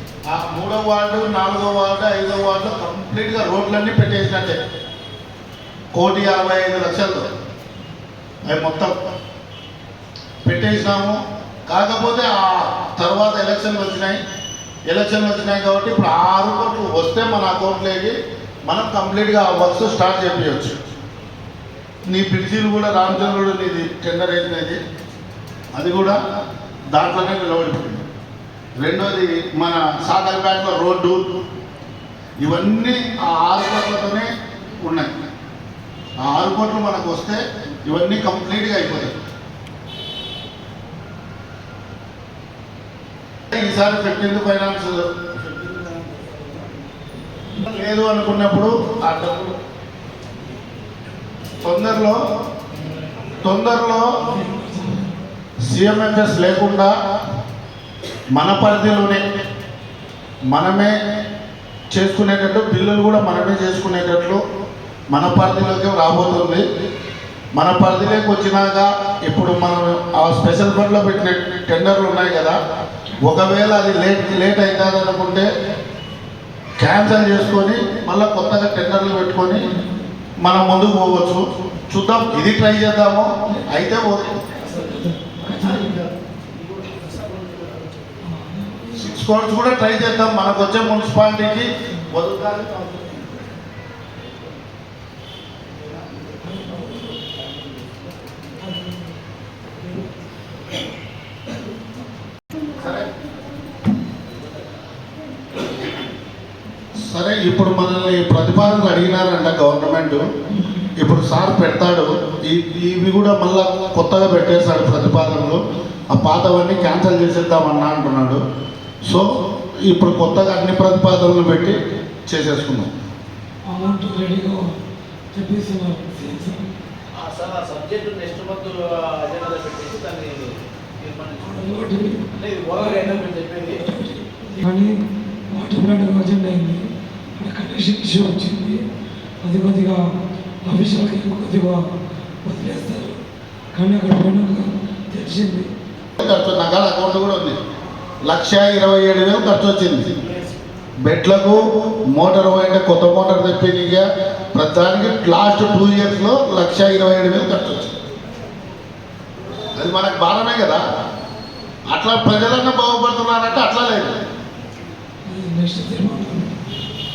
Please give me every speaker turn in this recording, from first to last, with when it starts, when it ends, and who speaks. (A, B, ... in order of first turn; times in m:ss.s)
0:00.3-0:04.6 A
0:05.9-0:07.2 A
0:08.5-0:08.9 A
0:10.5-0:14.2 A
0:14.9-0:18.2 A
0:18.7-0:20.8 A
0:22.1-0:24.8 A
0:25.8-0:26.2 A
0:26.9-0:28.0 A
0:28.8-0:31.2 A
0:32.4-0:34.3 A
0:34.8-0:35.2 A
0:36.2-0:39.1 A
0:43.5-0:45.1 A
0:45.4-0:46.2 B
0:47.6-0:49.5 A
0:51.6-0:52.2 A
0:53.4-0:54.1 A
0:54.3-0:55.2 C
0:55.7-0:56.9 A
0:58.4-0:59.2 A
1:00.5-1:01.0 A
1:01.9-1:04.4 A
1:05.1-1:06.6 A
1:07.6-1:12.6 A
1:13.2-1:15.5 A
1:16.8-1:19.6 A
1:19.7-1:20.0 C
1:20.4-1:24.4 A
1:24.6-1:27.9 B
1:24.7-1:26.0 C
1:28.2-1:29.1 C
1:28.9-1:33.0 A
1:36.4-1:37.2 C
1:38.6-1:39.1 C
1:42.8-1:43.0 A
1:47.0-1:50.2 A
1:51.0-1:58.4 A
1:59.8-2:01.8 A
2:02.3-2:02.9 A
2:03.7-2:04.7 C
2:05.3-2:06.7 C
2:07.2-2:11.8 B
2:11.4-2:13.3 C
2:12.4-2:13.8 B
2:13.8-2:15.0 C
2:15.5-2:16.8 C
2:17.4-2:18.8 C
2:19.4-2:20.0 C
2:20.6-2:21.8 C
2:22.4-2:23.2 C
2:23.8-2:25.7 C
2:26.2-2:27.6 A
2:28.2-2:30.1 A
2:31.0-2:37.9 A
2:39.8-2:40.8 A
2:41.9-2:44.1 A
2:45.3-2:46.5 C